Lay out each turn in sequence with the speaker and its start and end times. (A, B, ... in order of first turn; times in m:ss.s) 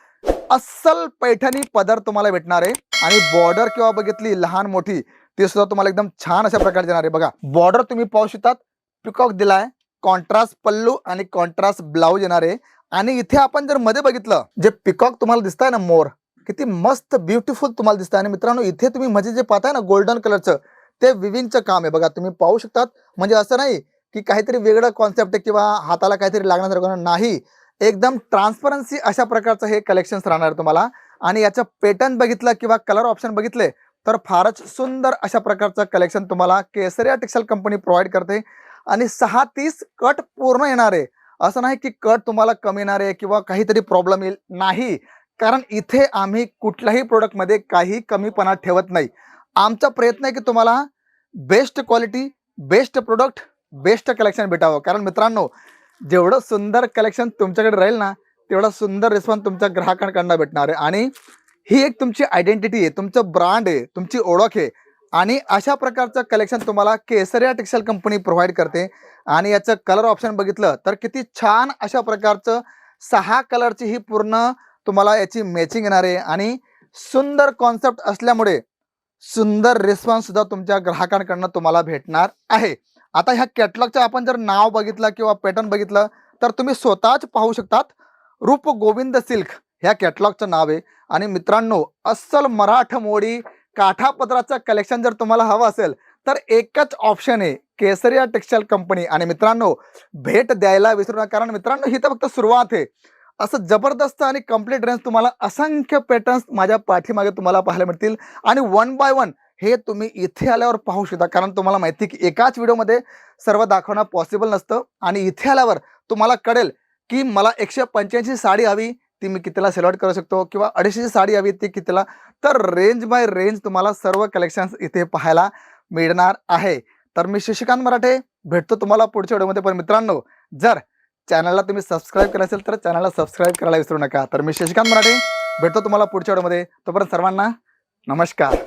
0:00.5-0:49.1 A
0:49.6-0:50.8 A
0:51.4-0:55.5 A
0:56.1-1:01.1 A
1:01.7-1:18.6 A
1:19.2-1:27.9 A
1:28.4-1:42.9 A
1:43.4-2:17.5 A
2:18.1-2:18.5 A